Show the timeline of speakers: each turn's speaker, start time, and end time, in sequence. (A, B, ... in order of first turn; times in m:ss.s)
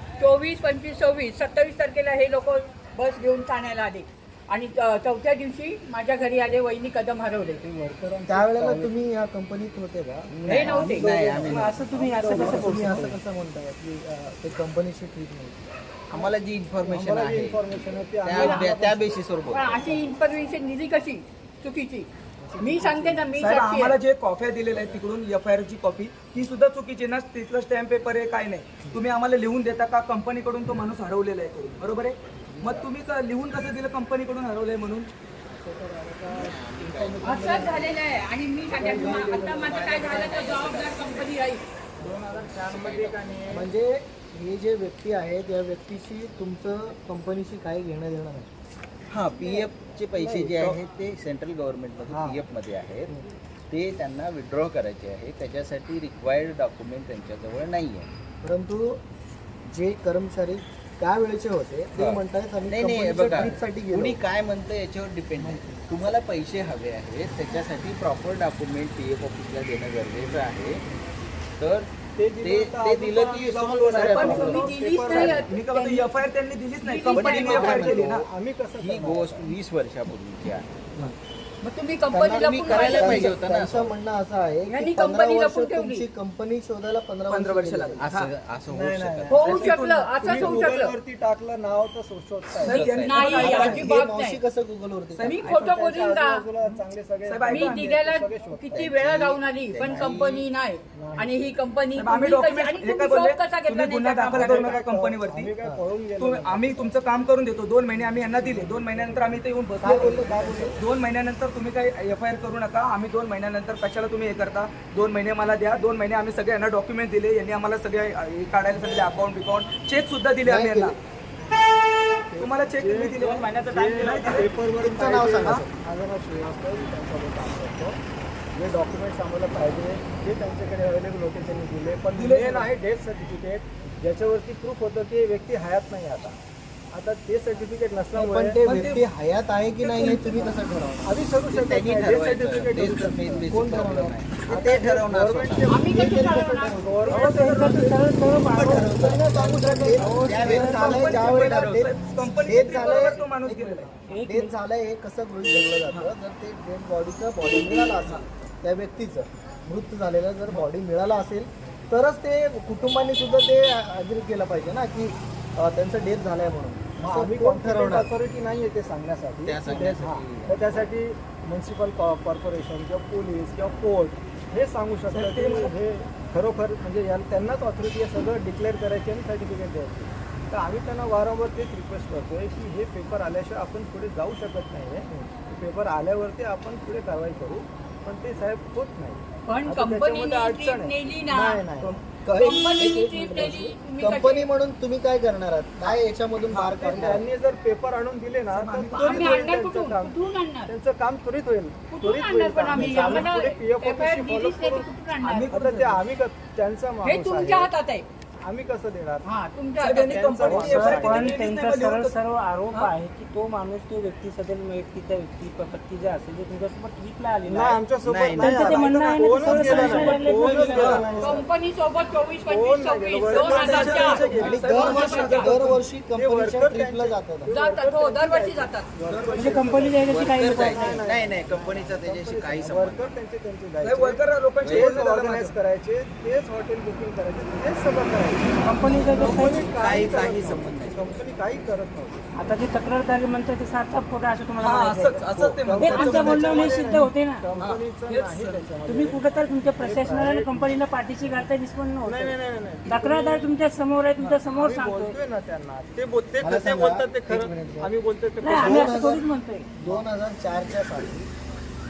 0:00.2-0:07.6 A
0:07.6-0:08.9 B
0:08.2-0:10.3 C
0:10.3-0:12.0 D
0:10.5-0:11.1 A
0:10.6-0:13.2 E
0:11.0-0:12.8 B
0:12.0-0:15.7 C
0:16.1-0:19.9 D
0:16.8-0:19.1 B
0:18.3-0:18.6 A
0:19.5-0:24.0 A
0:22.4-0:23.3 C
0:23.4-0:35.1 F
0:32.4-0:32.8 C
0:35.7-0:37.8 B
0:36.2-0:37.8 D
0:37.0-0:37.9 C
0:37.2-0:41.6 A
0:38.7-0:39.5 B
0:38.8-0:39.7 C
0:38.8-0:41.0 D
0:42.1-0:43.6 D
0:42.4-0:43.5 B
0:43.5-0:48.5 C
0:49.1-0:53.2 D
0:50.2-0:50.8 C
0:52.1-0:52.4 B
0:53.7-0:58.1 D
0:58.4-0:59.0 C
0:59.7-1:04.2 C
1:02.0-1:10.8 D
1:11.6-1:15.4 D
1:12.1-1:15.5 B
1:14.0-1:14.5 F
1:14.1-1:16.2 A
1:15.4-1:18.3 F
1:16.8-1:17.9 A
1:17.1-1:18.2 D
1:17.4-1:19.5 B
1:18.8-1:21.1 D
1:21.6-1:23.3 A
1:22.1-1:28.0 C
1:22.3-1:23.9 D
1:24.7-1:26.0 A
1:27.3-1:28.3 F
1:28.0-1:29.5 D
1:28.7-1:32.9 B
1:29.3-1:30.9 A
1:29.5-1:29.9 F
1:30.3-1:30.7 D
1:32.6-1:34.0 F
1:32.6-1:33.5 D
1:32.6-1:34.4 A
1:33.4-1:35.3 C
1:35.2-1:35.5 F
1:35.2-1:36.5 A
1:35.4-1:38.9 B
1:37.2-1:37.9 F
1:37.5-1:44.7 A
1:38.7-1:40.4 D
1:40.9-1:41.5 B
1:42.0-1:45.5 F
1:44.3-1:47.0 B
1:46.2-2:01.0 F
1:47.9-1:50.8 B
1:49.8-1:50.8 C
2:00.4-2:01.0 C
2:02.3-2:08.0 B
2:02.4-2:04.5 F
2:04.8-2:05.7 C
2:08.5-2:16.4 B
2:12.1-2:12.7 F
2:16.9-2:18.6 B
2:18.1-2:21.1 C
2:18.6-2:19.0 F
2:19.8-2:20.4 F
2:21.0-2:23.5 B
2:21.4-2:25.7 D
2:23.5-2:24.1 C
2:24.3-2:28.0 B
2:25.7-2:27.3 A
2:25.9-2:26.9 C
2:27.1-2:28.0 F
2:27.1-2:31.4 E
2:28.5-2:48.1 C
2:29.0-2:30.1 B
2:30.2-2:30.7 D
2:30.4-2:34.0 F
2:30.7-2:31.0 B
2:31.4-2:31.9 D
2:34.1-2:34.5 E
2:47.0-3:11.9 B
2:49.4-2:50.7 D
2:55.1-2:55.7 F
3:09.5-3:11.6 A
3:11.8-3:17.3 C
3:12.3-3:14.5 A
3:16.5-3:16.8 F
3:16.7-3:24.9 B
3:18.5-3:19.4 F
3:18.9-3:20.7 A
3:21.9-3:25.5 A
3:25.2-3:26.0 F
3:25.5-3:27.7 B
3:27.0-3:28.1 A
3:28.4-3:29.3 B
3:29.2-3:30.2 A
3:29.8-3:32.2 F
3:29.9-3:31.4 B
3:30.5-3:41.1 E
3:37.4-3:41.4 B
3:38.0-3:38.6 D
3:39.7-3:41.1 F
3:41.2-3:45.6 A
3:42.4-4:02.2 B
3:43.2-3:45.8 F
3:44.3-3:47.5 C
3:47.5-3:48.9 A
3:49.1-3:49.8 F
3:49.3-3:51.0 E
3:50.0-3:53.2 D
3:53.8-3:55.6 F
3:54.6-3:55.0 D
3:58.6-4:00.2 E
3:59.0-4:01.4 D
4:02.4-4:07.5 E
4:04.6-4:06.9 F
4:05.3-4:11.4 B
4:07.6-4:08.7 F
4:08.8-4:12.3 E
4:12.0-4:13.5 B
4:12.8-4:15.1 E
4:14.5-4:18.9 B
4:16.4-4:17.9 C
4:18.4-4:19.7 E
4:18.5-4:19.2 C
4:19.8-4:21.3 C